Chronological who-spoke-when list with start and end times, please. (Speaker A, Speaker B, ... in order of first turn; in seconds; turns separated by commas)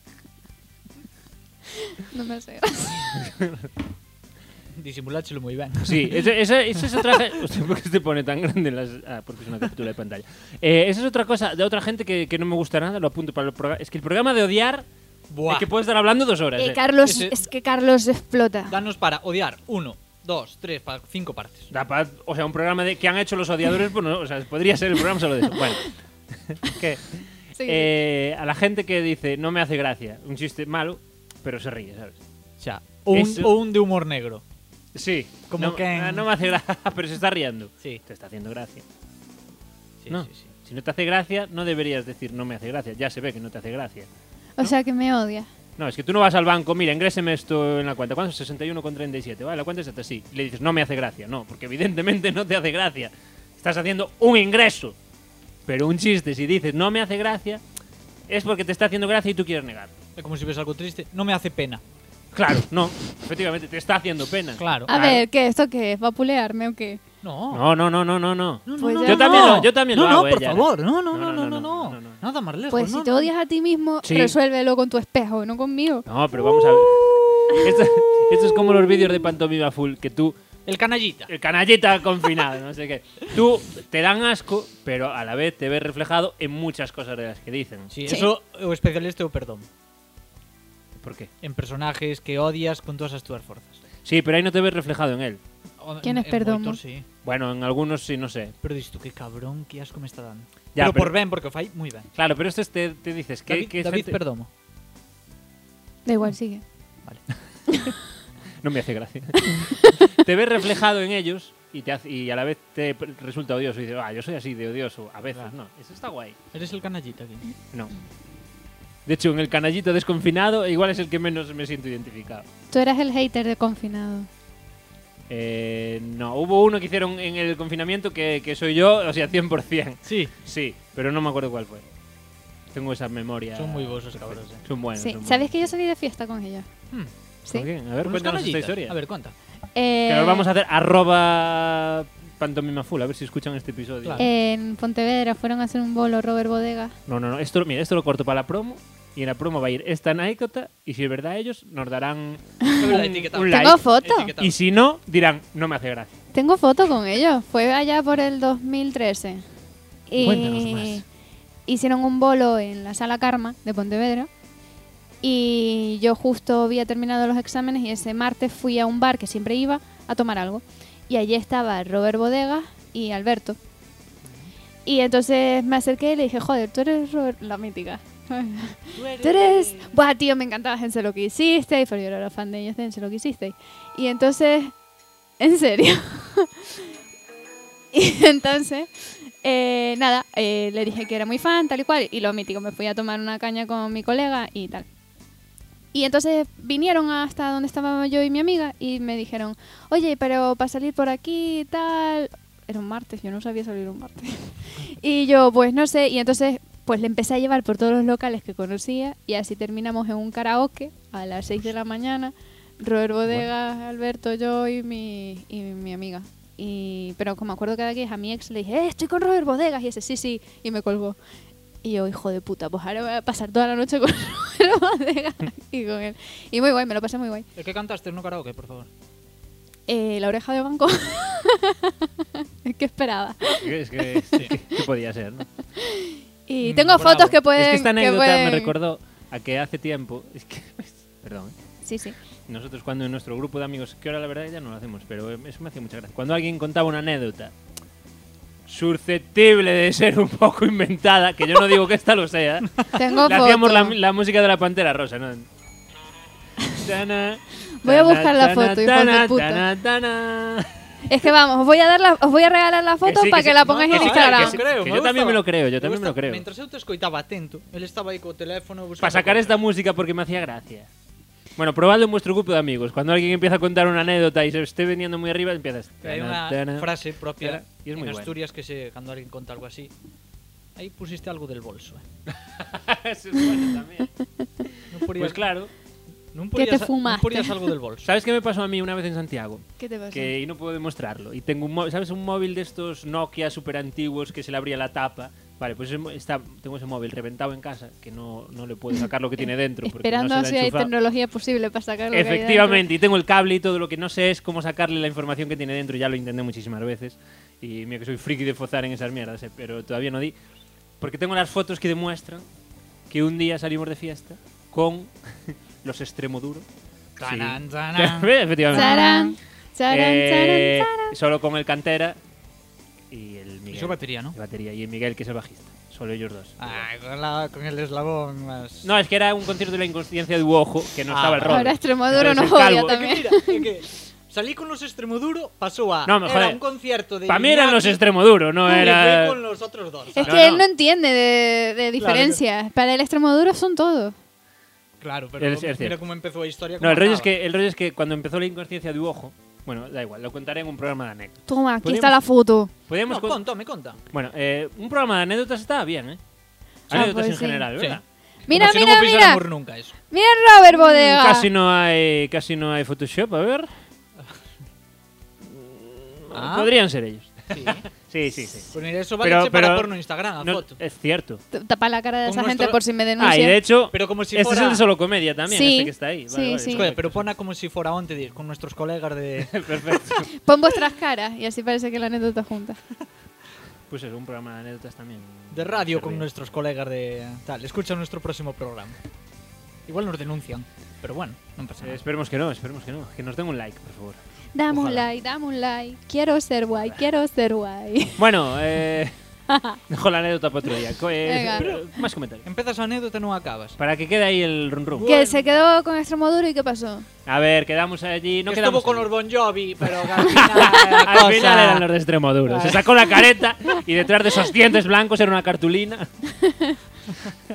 Speaker A: 1.8-3.1, Speaker B: 3.1-3.7, Speaker C: 4.8-6.2, Speaker B: 5.8-14.9, Speaker C: 15.3-15.7, Speaker B: 15.5-16.8, Speaker A: 16.6-18.8, Speaker C: 17.0-17.4, Speaker C: 18.7-21.7, Speaker B: 21.7-32.2, Speaker A: 27.6-27.9, Speaker C: 32.6-34.4, Speaker B: 33.1-33.5, Speaker B: 34.9-38.8, Speaker C: 35.5-36.3, Speaker C: 40.0-40.5, Speaker B: 40.1-44.1, Speaker A: 44.6-45.5, Speaker B: 45.8-55.0, Speaker B: 55.7-57.6, Speaker B: 58.3-59.9, Speaker C: 60.2-61.8, Speaker B: 62.3-65.2, Speaker C: 64.6-64.9, Speaker A: 64.9-67.0, Speaker C: 67.2-67.7, Speaker B: 67.5-72.2, Speaker C: 68.7-73.3, Speaker A: 68.8-69.6, Speaker A: 72.7-76.1, Speaker B: 74.0-74.3, Speaker B: 76.1-80.4, Speaker C: 80.7-81.3, Speaker B: 81.3-87.9, Speaker C: 87.9-89.7, Speaker B: 91.0-91.3, Speaker C: 91.4-93.8, Speaker B: 94.0-95.4, Speaker C: 95.8-97.1, Speaker A: 96.0-96.8, Speaker B: 97.2-98.5, Speaker C: 98.6-102.1, Speaker B: 100.8-101.2, Speaker B: 102.2-104.2, Speaker C: 103.5-104.5, Speaker A: 106.1-106.6, Speaker B: 108.6-116.4, Speaker C: 116.5-117.5, Speaker B: 119.1-122.5, Speaker A: 122.7-124.3, Speaker B: 125.3-131.8, Speaker C: 130.1-130.3, Speaker B: 132.7-135.7, Speaker C: 133.6-134.7, Speaker A: 135.0-136.7, Speaker B: 137.5-139.0, Speaker C: 138.0-139.3, Speaker A: 139.8-140.5, Speaker B: 140.1-144.3, Speaker A: 144.2-146.9, Speaker B: 147.1-153.8, Speaker C: 152.8-154.6, Speaker A: 153.5-154.3, Speaker B: 154.4-156.2, Speaker A: 156.3-159.4, Speaker A: 160.1-161.0, Speaker B: 160.2-161.0, Speaker A: 161.7-164.3, Speaker A: 165.2-173.6, Speaker C: 174.2-174.5, Speaker A: 174.9-184.7, Speaker C: 179.0-180.0, Speaker A: 185.4-186.7, Speaker A: 187.9-194.9, Speaker A: 195.9-221.2, Speaker A: 221.8-227.5, Speaker C: 227.6-228.9, Speaker A: 229.9-231.9, Speaker A: 232.6-234.2, Speaker B: 233.6-235.5, Speaker A: 235.8-238.7, Speaker C: 236.6-237.4, Speaker B: 237.5-241.6, Speaker A: 241.8-242.2, Speaker B: 242.5-247.6, Speaker B: 248.7-255.5, Speaker A: 252.9-254.0, Speaker B: 256.8-260.7, Speaker A: 257.8-259.6, Speaker A: 261.1-264.6, Speaker B: 263.0-266.5, Speaker C: 263.8-269.6, Speaker B: 269.0-270.9, Speaker B: 271.6-278.3, Speaker C: 276.0-279.9, Speaker C: 280.8-282.0, Speaker B: 282.3-284.1, Speaker B: 284.6-285.7, Speaker C: 284.9-285.5, Speaker C: 286.3-288.1, Speaker A: 286.6-287.6, Speaker B: 288.0-300.9, Speaker A: 289.8-290.3, Speaker A: 299.8-302.9, Speaker B: 302.1-310.4, Speaker B: 311.0-312.5, Speaker B: 313.1-316.7, Speaker C: 317.2-319.1, Speaker B: 317.2-319.3, Speaker A: 318.7-321.1, Speaker B: 319.9-322.2, Speaker B: 323.1-326.9, Speaker C: 323.7-324.4, Speaker C: 326.6-328.9, Speaker B: 328.8-333.0, Speaker C: 331.1-331.7, Speaker A: 331.5-333.6, Speaker C: 332.8-338.0, Speaker B: 336.1-336.6, Speaker B: 337.3-339.4, Speaker C: 338.7-340.4, Speaker A: 340.2-344.1, Speaker B: 340.2-340.7, Speaker C: 342.0-342.4, Speaker C: 345.0-347.3, Speaker B: 345.4-346.0, Speaker B: 346.8-352.2, Speaker A: 351.5-352.7, Speaker B: 352.9-353.4, Speaker C: 353.1-354.0, Speaker B: 354.1-356.2, Speaker B: 356.9-358.0, Speaker A: 356.9-357.7, Speaker C: 357.8-359.9, Speaker A: 358.5-359.4, Speaker A: 360.1-361.5, Speaker B: 360.9-363.7, Speaker B: 365.4-371.4, Speaker C: 366.3-366.7, Speaker C: 367.5-367.9, Speaker C: 368.7-370.8, Speaker A: 371.5-373.6, Speaker C: 372.3-372.8, Speaker B: 373.2-377.3, Speaker C: 373.9-374.8, Speaker A: 375.5-376.9, Speaker C: 376.7-379.8, Speaker B: 379.4-380.3, Speaker A: 380.4-382.8, Speaker B: 383.9-386.3, Speaker C: 385.5-389.0, Speaker C: 389.9-392.0, Speaker B: 391.8-394.2, Speaker A: 394.6-398.2, Speaker C: 394.7-395.1, Speaker B: 398.2-399.2, Speaker A: 399.5-399.8, Speaker B: 399.9-402.5, Speaker A: 401.2-401.7, Speaker C: 401.5-401.9, Speaker C: 402.4-403.8, Speaker B: 403.8-405.1, Speaker C: 404.9-405.5, Speaker A: 405.1-407.1, Speaker B: 407.3-409.1, Speaker C: 408.5-411.9, Speaker B: 409.8-416.1, Speaker C: 412.5-412.9, Speaker A: 416.5-416.7